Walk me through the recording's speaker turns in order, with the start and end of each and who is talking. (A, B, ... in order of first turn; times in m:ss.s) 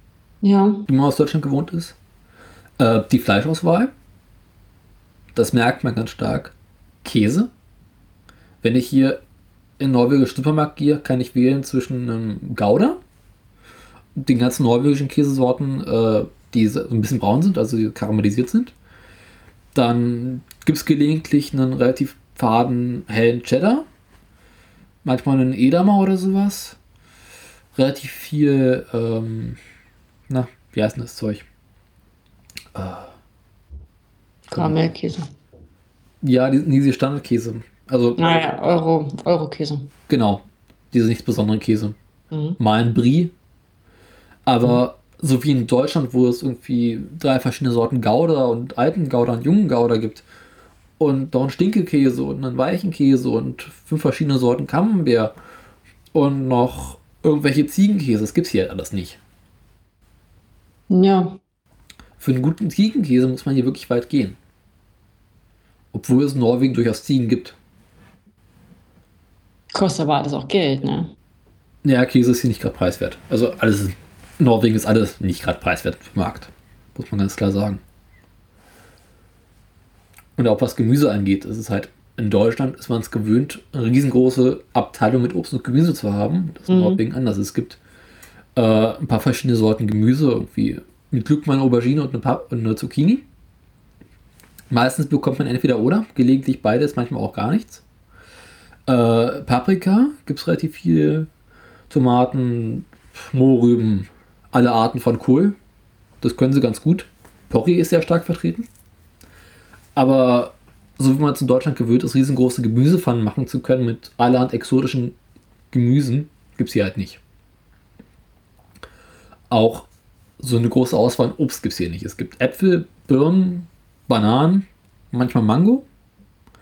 0:00.4-0:00.9 A
0:00.9-0:02.0 B
0:02.8-0:03.9 B
0:05.4-0:07.5 B
0:08.6-0:09.2 B
0:09.8-0:13.0 B
0:14.2-0:18.7 B
0:19.7-0:23.9 B
0:25.0-0:26.8 B
0:27.8-0:29.6 B
0:30.3-0:31.4 B
0:32.7-0:33.1 B
0:34.5-0:34.8 B
0:34.5-0:35.3 A
0:36.2-0:38.2 B
0:38.2-0:39.9 A
0:40.1-0:42.0 B
0:42.3-0:42.6 A
0:42.6-0:43.3 B
0:44.5-0:50.2 B
0:51.0-0:55.3 B
0:56.1-0:59.2 B
1:00.9-1:01.4 A
1:02.2-1:04.4 B
1:05.9-1:07.6 B
1:09.7-1:11.1 A
1:11.8-1:17.8 B
1:20.4-1:27.8 B
1:26.7-1:27.0 A
1:28.6-1:33.2 B
1:34.7-1:37.8 B
1:38.9-1:41.3 B
1:41.9-1:45.6 B
1:46.2-1:48.7 B
1:50.0-1:55.2 B
1:55.7-1:57.2 B
1:59.5-1:59.9 B
2:00.4-2:05.9 B